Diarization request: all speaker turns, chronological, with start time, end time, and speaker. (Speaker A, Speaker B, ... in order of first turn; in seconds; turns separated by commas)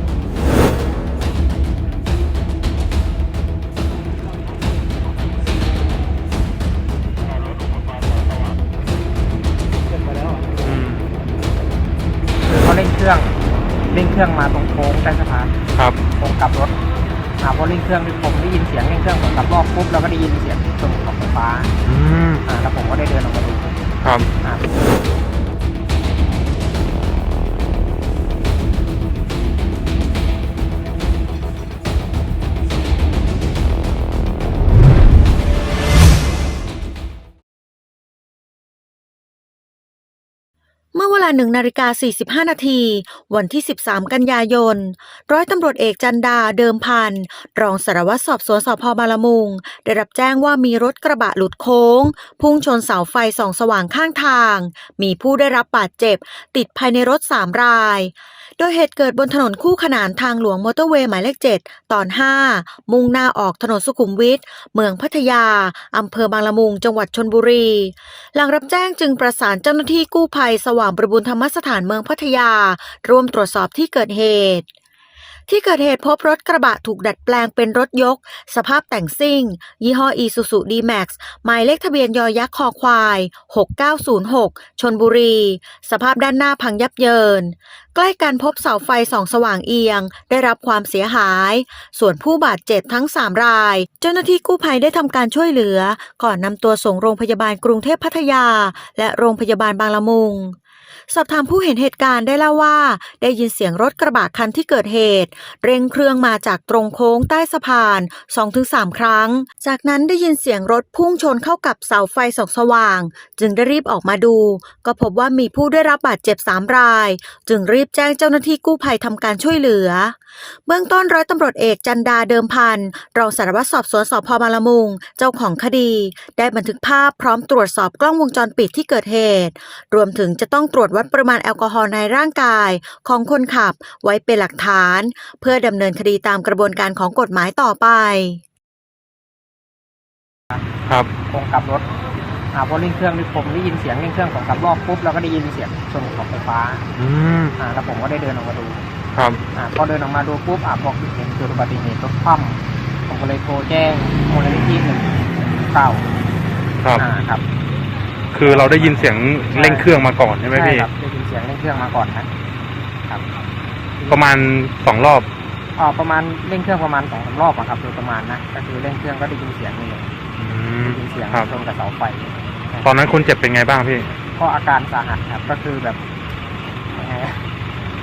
Speaker A: 10.6-11.1, Speaker B: 12.4-13.3, Speaker B: 13.9-15.5, Speaker B: 16.2-16.7, Speaker B: 17.4-21.7, Speaker A: 21.8-22.4, Speaker B: 22.4-23.8, Speaker A: 24.0-24.3, Speaker C: 40.9-74.7, Speaker C: 75.5-100.5, Speaker C: 101.1-138.4, Speaker B: 141.3-141.9, Speaker B: 142.5-146.9, Speaker A: 146.9-147.5, Speaker B: 147.6-148.8, Speaker A: 149.1-149.4, Speaker B: 149.5-156.1, Speaker B: 157.0-157.4, Speaker A: 158.3-160.9, Speaker B: 158.4-159.9, Speaker B: 160.5-162.3, Speaker A: 164.1-165.3, Speaker B: 165.8-170.1, Speaker A: 170.4-171.5, Speaker B: 170.8-172.9, Speaker A: 172.8-174.1, Speaker B: 174.4-176.0, Speaker B: 176.9-177.4